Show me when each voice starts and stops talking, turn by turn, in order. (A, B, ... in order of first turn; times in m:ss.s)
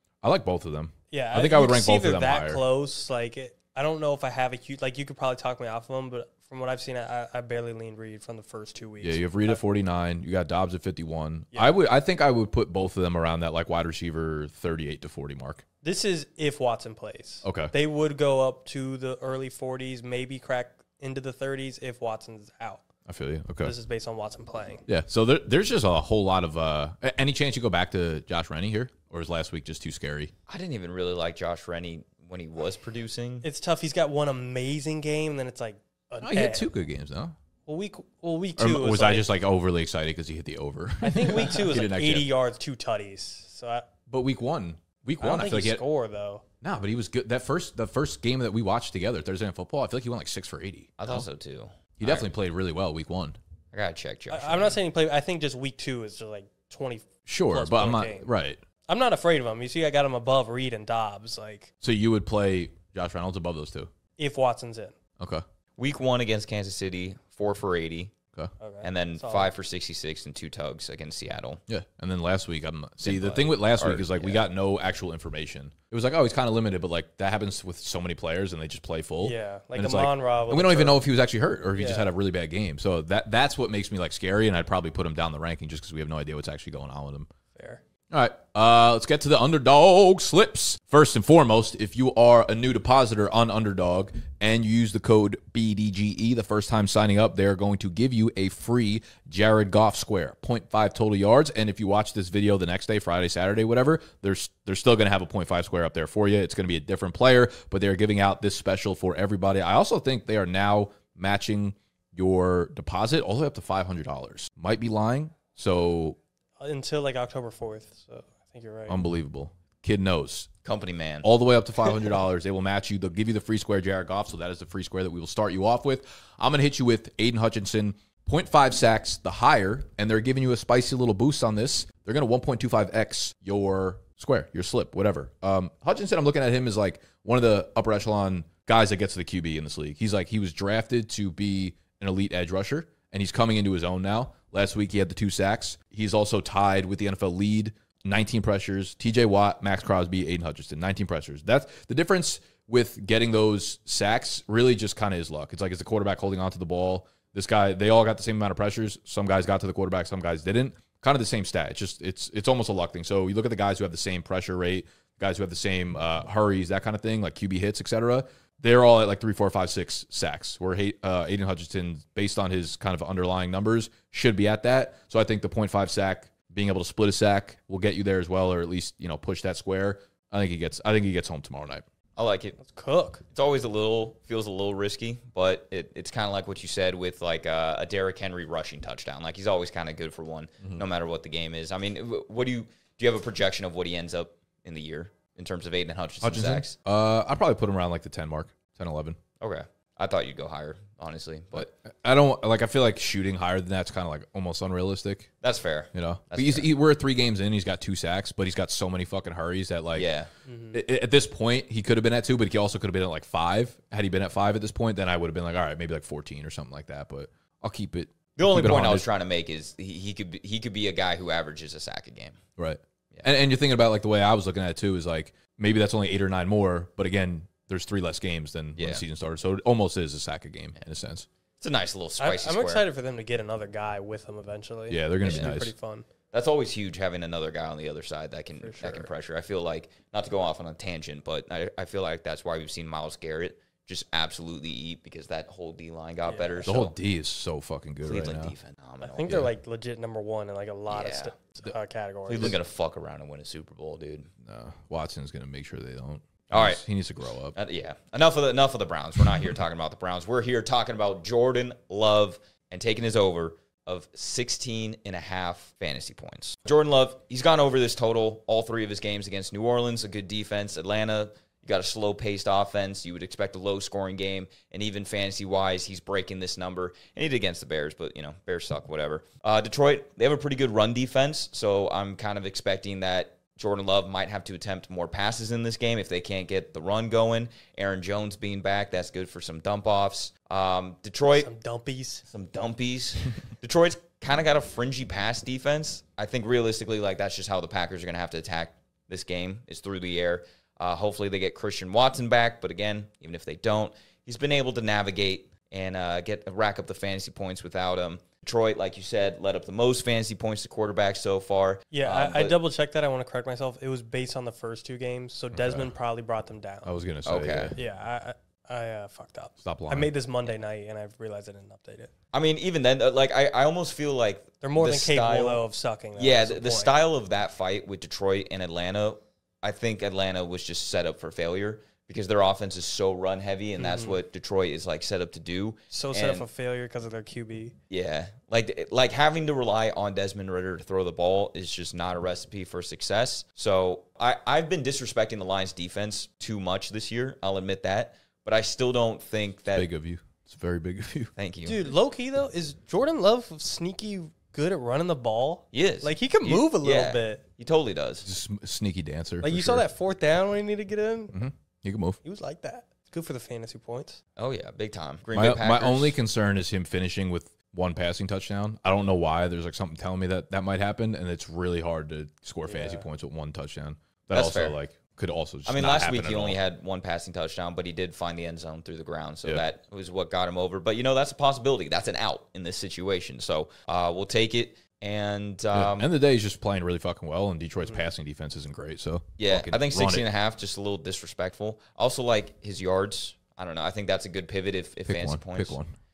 0:00.2-0:02.6 A
0:01.1-0:09.6 B
0:09.0-0:15.6 A
0:15.8-0:22.8 B
0:17.4-0:17.7 A
0:23.0-0:23.7 A
0:23.6-0:24.8 B
0:24.9-0:30.3 A
0:30.5-0:33.4 C
0:33.4-0:36.7 B
0:36.2-0:37.3 A
0:37.6-0:39.3 B
0:38.6-0:42.3 A
0:41.0-0:43.9 B
0:44.1-0:45.8 A
0:45.2-0:46.4 B
0:46.6-0:51.2 A
0:51.0-0:52.3 C
0:52.0-0:53.4 A
0:53.7-0:54.8 C
0:54.3-0:58.3 B
0:57.3-0:58.6 A
0:58.9-1:01.7 B
1:01.8-1:03.9 A
1:04.2-1:05.0 B
1:05.2-1:05.4 A
1:05.8-1:08.1 C
1:08.6-1:09.5 B
1:08.8-1:11.6 C
1:11.7-1:27.3 A
1:13.0-1:14.4 C
1:19.2-1:21.0 B
1:21.8-1:22.1 B
1:27.5-1:27.8 B
1:28.1-1:56.2 A
1:56.6-1:59.0 B
1:58.9-2:00.5 A
2:00.6-2:01.3 C
2:01.2-3:01.8 A
3:02.2-3:02.6 C
3:02.6-3:03.2 B
3:03.3-3:16.8 C
3:16.2-3:19.2 A
3:19.4-3:21.7 C
3:21.5-3:25.3 A
3:25.4-3:26.7 C
3:25.9-3:30.1 A
3:29.9-3:30.3 C
3:30.4-3:30.8 B
3:30.7-3:39.0 A
3:38.4-3:42.4 C
3:42.6-3:51.3 A
3:48.8-3:49.0 C
3:51.6-3:52.8 C
3:52.2-3:56.1 B
3:54.9-3:55.7 A
3:55.2-3:55.5 C
3:56.3-4:07.0 C
3:58.6-3:59.1 B
4:06.3-4:06.7 B
4:06.6-4:08.5 A
4:08.0-4:09.4 C
4:09.0-4:12.6 B
4:10.9-4:11.3 C
4:12.3-4:14.3 C
4:14.4-4:17.5 A
4:16.5-4:16.8 C
4:17.5-4:51.5 C
4:51.3-4:52.2 B
4:52.3-5:12.6 C
5:11.9-5:16.9 B
5:15.5-5:15.9 A
5:16.8-5:17.8 A
5:17.2-5:17.8 C
5:17.8-5:22.1 B
5:19.6-5:20.1 A
5:22.3-5:25.6 C
5:24.6-5:27.0 B
5:26.2-5:36.5 C
5:33.8-5:34.2 B
5:35.9-5:37.7 B
5:37.9-5:49.9 C
5:49.7-5:51.3 A
5:51.4-5:51.8 C
5:51.6-5:57.4 B
5:55.7-5:56.1 C
5:56.8-5:58.3 C
5:58.2-5:59.8 A
5:59.4-6:01.4 B
6:01.3-6:02.2 A
6:02.2-6:04.2 B
6:04.4-6:06.2 C
6:05.3-6:16.6 A
6:12.7-6:13.0 B
6:14.3-6:14.8 C
6:15.7-6:26.1 C
6:25.7-6:30.2 A
6:29.4-6:35.8 C
6:35.1-6:35.9 A